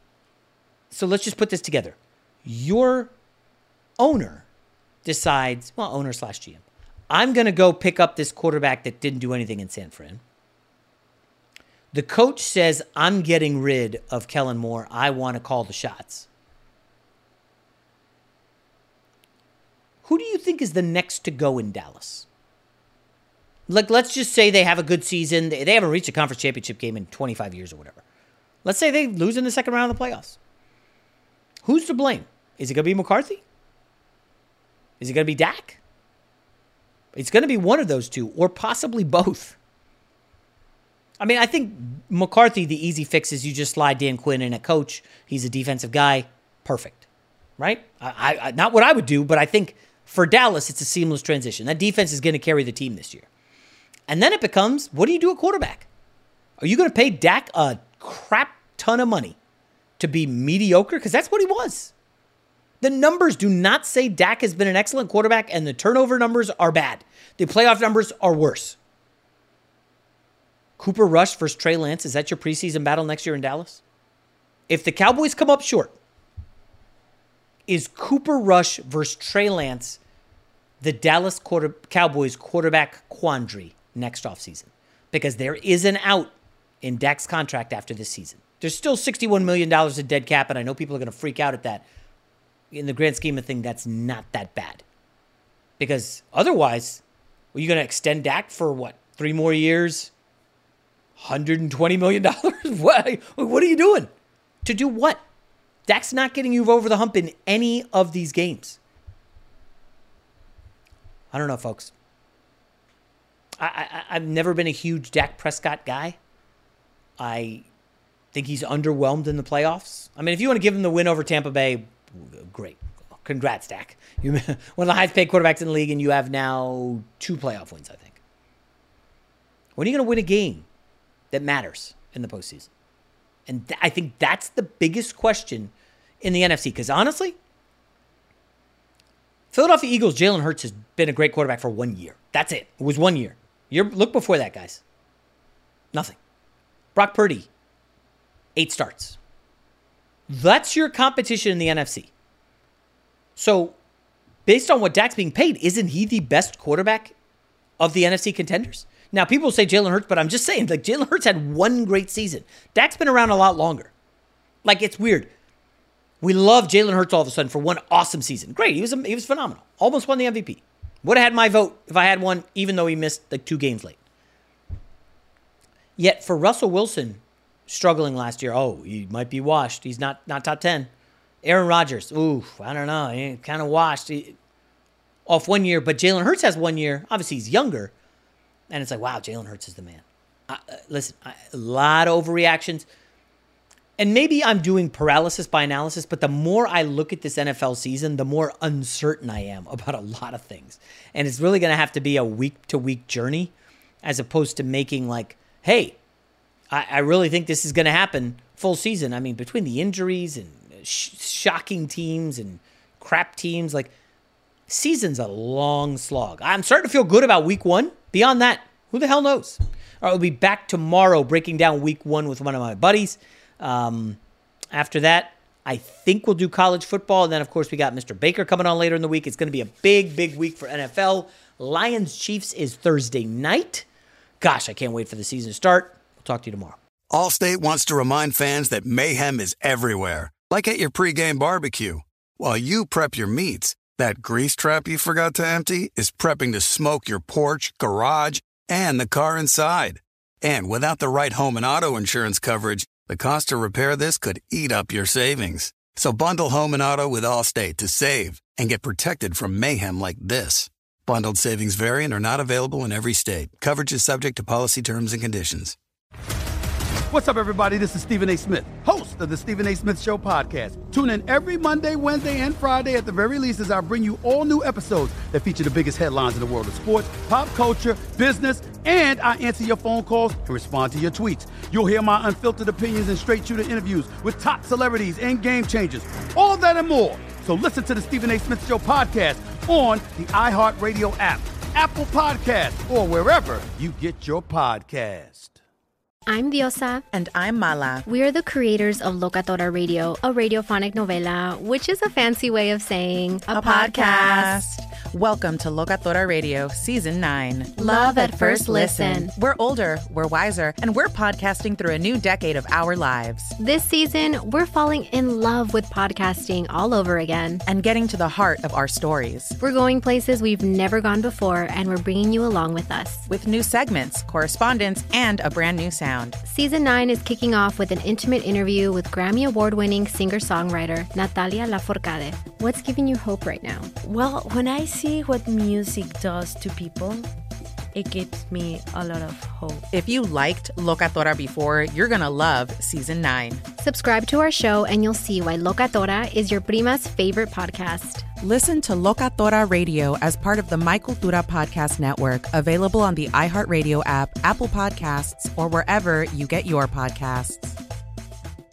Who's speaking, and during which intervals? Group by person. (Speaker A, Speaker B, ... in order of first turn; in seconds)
Speaker A: 0.9-3.1, 4.0-4.5, 5.0-10.2, 11.9-16.3, 20.0-22.3, 23.7-28.0, 28.6-30.4, 31.6-33.4, 35.0-35.8, 37.1-39.6, 41.2-47.0, 47.6-53.3, 54.1-55.9, 56.6-59.4, 60.0-61.9, 62.8-68.8, 70.8-73.8, 74.7-76.0, 77.7-80.0, 80.8-91.8, 92.7-94.8, 95.8-97.0, 97.5-100.1, 101.2-104.1, 104.7-105.2, 105.9-108.8, 111.3-111.9, 113.6-116.2, 117.2-117.7, 118.3-128.2, 129.8-130.7, 131.3-132.7, 133.5-137.4, 139.5-144.8, 146.9-147.5, 148.6-149.2, 150.3-152.1, 153.4-153.8, 154.5-157.1, 157.8-163.9, 164.6-165.3, 166.2-174.0, 176.0-180.9, 181.4-184.4, 185.3-187.9, 188.7-192.9, 194.0-203.5, 204.0-206.0, 206.7-213.9, 214.7-224.2, 224.7-233.9, 234.4-236.8
Speaker B: 237.1-265.8
Speaker C: 267.1-295.6
Speaker D: 296.3-297.1, 298.1-304.6, 307.8-309.3, 313.6-317.6, 319.6-323.3, 326.4-333.9, 343.8-348.3
Speaker E: 297.1-298.1, 303.5-313.6, 317.7-319.6, 323.3-326.4, 339.9-343.6, 348.4-357.8
Speaker F: 334.0-337.3, 337.9-339.8